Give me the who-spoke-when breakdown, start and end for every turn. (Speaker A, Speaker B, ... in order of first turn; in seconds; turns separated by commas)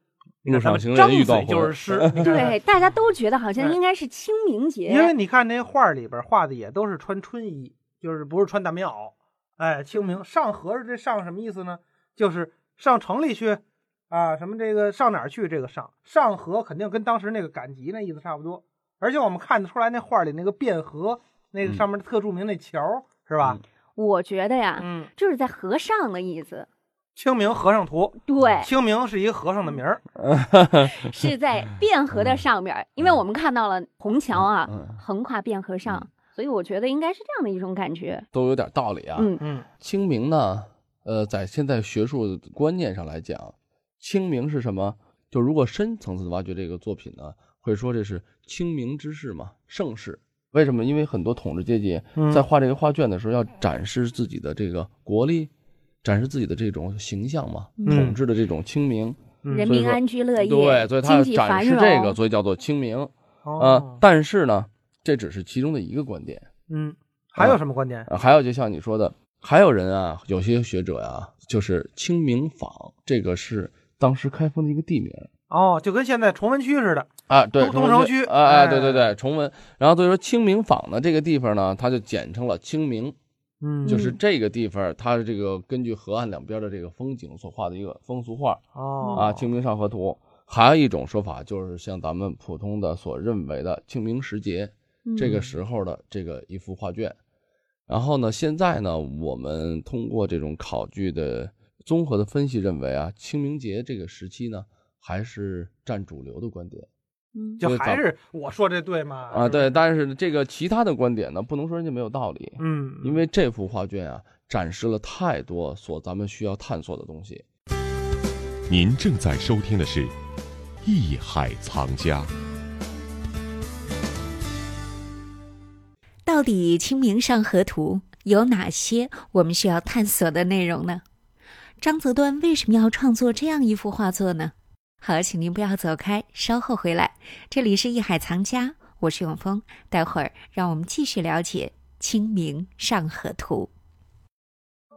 Speaker A: 0.4-2.5, Speaker B: 0.4-2.3, Speaker C: 2.2-5.1, Speaker A: 4.9-23.6, Speaker C: 23.9-26.7, Speaker A: 24.8-25.1, Speaker A: 27.1-30.0, Speaker C: 28.2-28.7, Speaker B: 30.3-30.9, Speaker C: 30.9-38.2, Speaker B: 34.7-34.9, Speaker B: 38.3-55.5, Speaker C: 39.1-39.4, Speaker A: 39.4-39.6, Speaker A: 52.1-52.4, Speaker B: 56.0-66.5, Speaker A: 57.9-58.2, Speaker A: 59.4-59.7, Speaker C: 59.5-62.2, Speaker A: 63.4-64.0, Speaker A: 66.7-68.1, Speaker B: 67.4-75.3, Speaker A: 75.5-79.1, Speaker B: 77.3-83.2, Speaker A: 83.6-84.0, Speaker C: 83.8-84.2, Speaker B: 83.8-88.6, Speaker A: 88.7-89.3, Speaker B: 89.1-97.2, Speaker C: 95.0-95.3, Speaker B: 97.9-106.9, Speaker A: 107.6-109.8, Speaker B: 107.6-108.0, Speaker B: 109.3-117.4, Speaker A: 112.6-113.2, Speaker D: 118.7-120.2, Speaker D: 120.8-122.3, Speaker E: 126.2-131.0, Speaker E: 131.8-143.7